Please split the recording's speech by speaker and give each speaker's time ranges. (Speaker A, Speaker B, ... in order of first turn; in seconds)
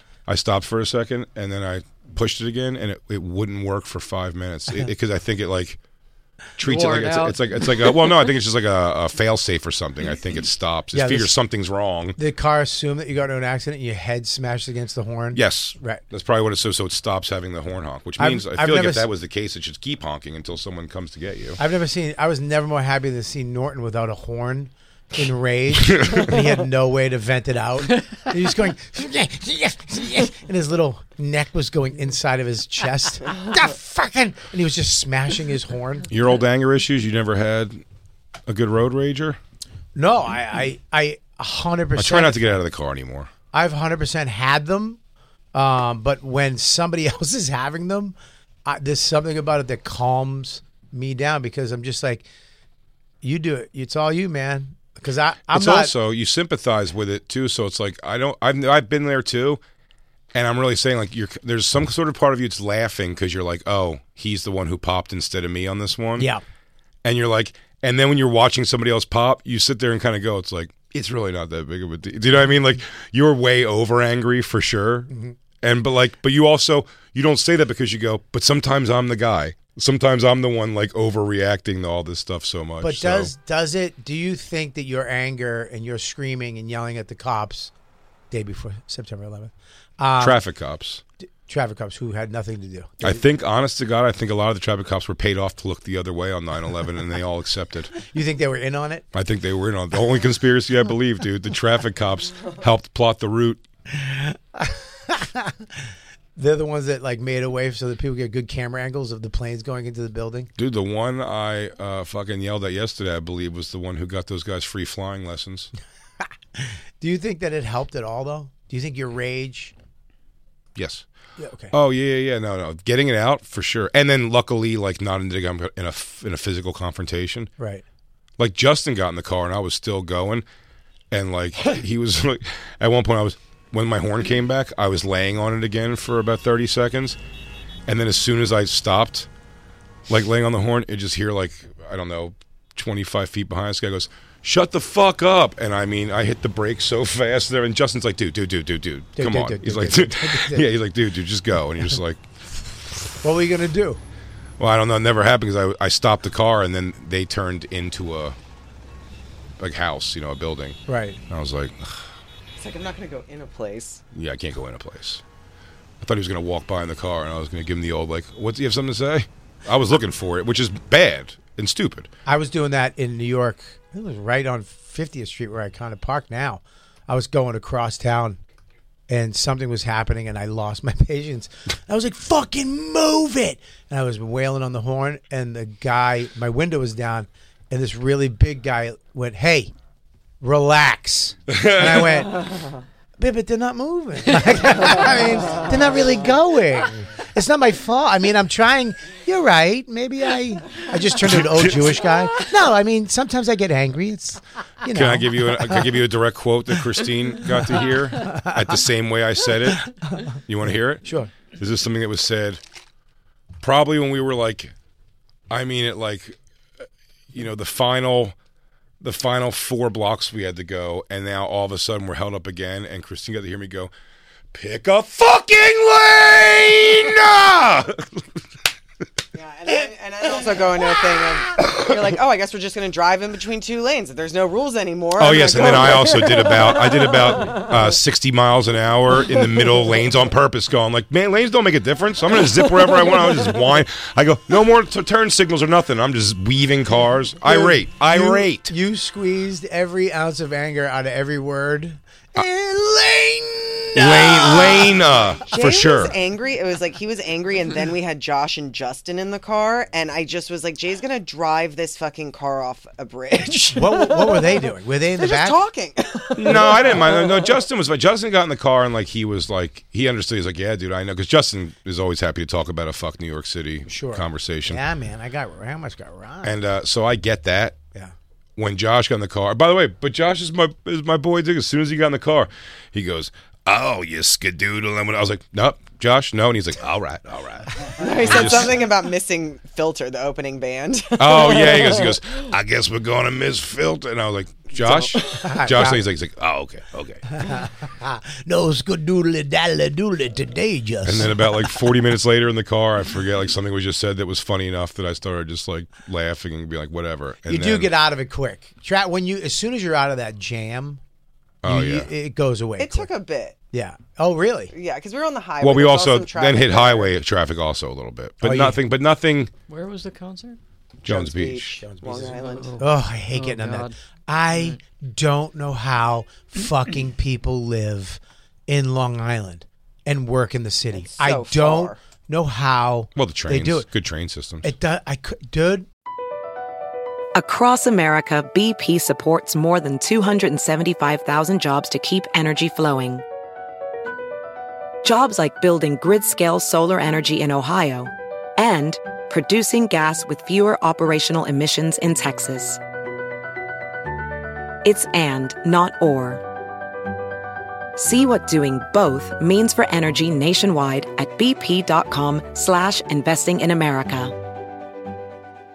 Speaker A: 0.3-5.8, 6.6-12.2, 15.3-21.6, 25.8-26.4, 36.1-37.8, 38.5-39.4, 42.0-43.3, 55.5-59.6, 60.3-66.3, 67.0-75.1, 75.6-83.3, 90.2-91.0, 93.0-97.9, 99.1-103.6, 110.5-115.7, 120.8-121.0, 121.7-127.5, 128.4-130.4, 131.1-137.2, 137.8-139.3, 140.1-153.0, 154.6-158.3, 159.6-162.1, 164.1-165.2, 166.0-172.1, 191.5-192.3, 201.2-202.0, 204.9-212.6, 213.6-214.7, 215.5-216.4, 217.3-218.3, 219.0-223.9, 224.5-228.4, 231.6-231.8, 235.2-248.7, 253.9-256.1, 266.4-274.8, 276.4-277.8, 278.6-288.8, 291.2-297.2, 301.0-307.9, 311.6-312.1, 315.6-319.5, 321.0-321.8, 333.1-334.7
Speaker B: 6.6-8.1, 319.7-320.6, 322.1-323.9, 324.5-324.8
Speaker C: 10.9-11.3, 12.2-16.0, 18.2-19.1, 21.6-36.1, 40.0-42.5, 43.5-45.0, 45.5-52.2, 53.2-55.9, 82.8-87.7, 88.3-90.4, 91.5-93.2, 98.1-99.0, 103.9-105.6, 106.3-110.5, 116.5-119.7, 121.4-121.7, 127.6-127.8, 149.2-150.7, 153.2-154.0, 160.9-161.2, 172.2-178.4, 179.1-189.7, 190.4-192.5, 193.2-205.9, 208.2-208.7, 211.0-211.3, 247.4-254.3, 263.8-265.6, 273.9-276.6, 294.8-296.0, 297.3-301.4, 307.4-311.0, 311.6-313.1, 313.7-314.7, 318.4-318.8, 321.8-333.9, 334.6-335.9
Speaker D: 162.6-164.0, 229.3-237.6, 254.0-254.9, 255.5-267.5, 287.9-292.1, 312.8-313.6, 314.7-317.1, 321.0-322.8, 330.9-332.0
Speaker E: 337.3-343.2, 345.0-352.8, 354.8-356.4, 358.0-364.3